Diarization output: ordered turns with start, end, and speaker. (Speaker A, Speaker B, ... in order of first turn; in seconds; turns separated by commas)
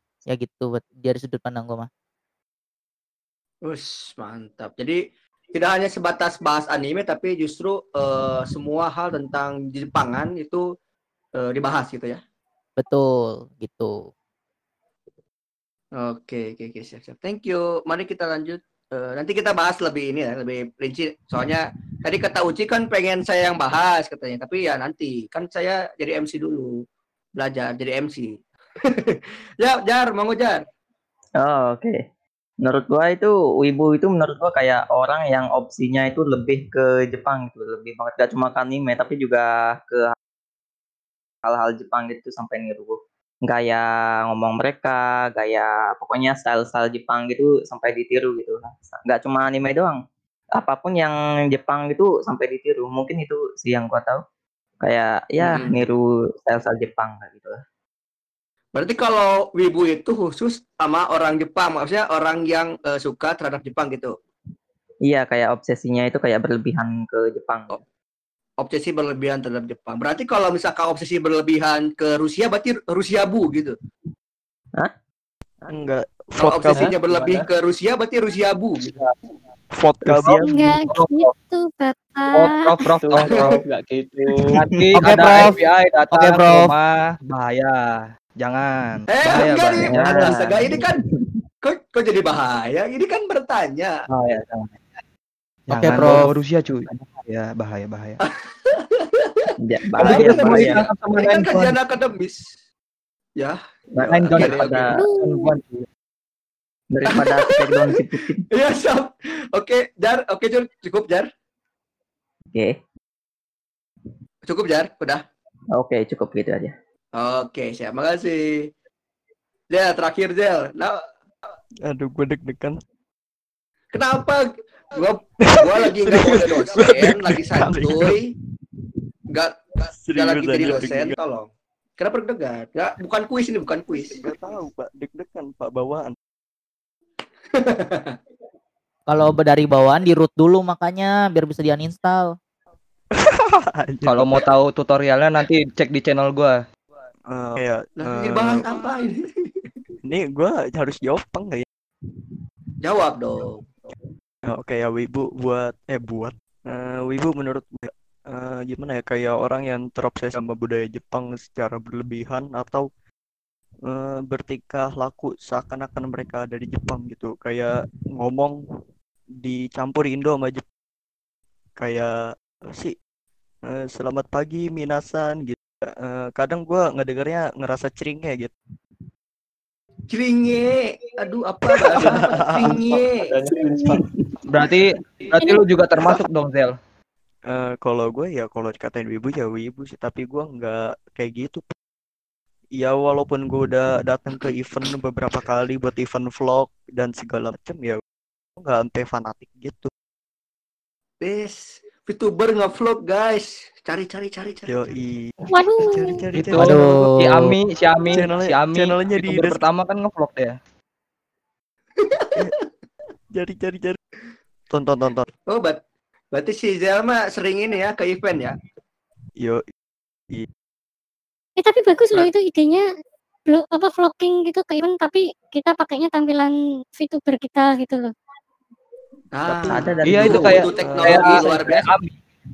Speaker A: 0.2-1.9, Speaker B: 3.6-10.7, Speaker B: 11.3-12.2, Speaker A: 12.8-14.0, Speaker B: 15.9-26.8, Speaker B: 27.4-28.4, Speaker B: 29.1-30.6, Speaker C: 31.4-32.0, Speaker C: 32.6-40.1, Speaker C: 41.4-50.0, Speaker C: 50.5-54.2, Speaker C: 54.8-57.6, Speaker B: 55.4-55.9, Speaker B: 58.7-64.2, Speaker C: 65.0-67.8, Speaker B: 68.6-73.8, Speaker D: 75.7-76.9, Speaker B: 76.4-79.0, Speaker E: 76.7-77.5, Speaker D: 79.7-80.7, Speaker F: 80.0-81.3, Speaker G: 80.4-82.8, Speaker F: 82.3-83.6, Speaker E: 83.0-84.5, Speaker B: 83.2-83.5, Speaker F: 84.4-90.7, Speaker A: 84.9-85.5, Speaker A: 86.1-86.7, Speaker B: 89.1-91.0, Speaker C: 89.8-91.2, Speaker B: 91.6-94.0, Speaker F: 94.1-94.8, Speaker F: 95.7-98.2, Speaker A: 95.7-96.3, Speaker B: 98.3-99.2, Speaker C: 99.6-100.8, Speaker B: 99.9-102.5, Speaker F: 100.0-101.8, Speaker B: 103.3-104.8, Speaker C: 103.9-105.0, Speaker F: 104.1-105.8, Speaker G: 104.9-105.5, Speaker C: 106.9-108.4, Speaker B: 107.1-111.3, Speaker B: 114.4-115.2, Speaker C: 115.7-116.7, Speaker B: 117.1-118.7, Speaker B: 119.7-121.0, Speaker D: 121.8-122.8, Speaker B: 123.9-128.3, Speaker D: 125.4-128.2, Speaker B: 129.3-134.2, Speaker D: 129.9-131.2, Speaker D: 134.1-136.2, Speaker B: 137.5-138.2, Speaker A: 139.1-142.3, Speaker D: 143.2-144.4, Speaker F: 144.1-146.6, Speaker D: 147.3-148.7, Speaker B: 148.0-149.7, Speaker D: 150.0-151.6, Speaker B: 152.8-153.7, Speaker D: 154.4-162.9, Speaker D: 163.8-168.6, Speaker D: 169.4-170.6, Speaker D: 171.8-172.9, Speaker D: 173.6-178.5, Speaker B: 180.1-183.3, Speaker D: 181.8-182.8, Speaker E: 182.8-184.0, Speaker F: 184.4-186.8, Speaker G: 185.3-185.6, Speaker D: 187.5-191.7, Speaker D: 192.8-198.0, Speaker D: 198.6-199.9, Speaker B: 201.2-204.7, Speaker D: 204.7-206.8, Speaker G: 205.5-206.2, Speaker F: 206.3-210.6, Speaker A: 206.5-207.5, Speaker D: 208.1-209.6, Speaker B: 212.0-212.3, Speaker D: 213.3-214.0, Speaker D: 214.7-215.2, Speaker B: 215.5-215.8, Speaker B: 216.3-218.6, Speaker G: 221.6-222.8, Speaker G: 223.5-228.1, Speaker B: 229.3-231.9, Speaker C: 229.4-231.6, Speaker F: 230.0-232.1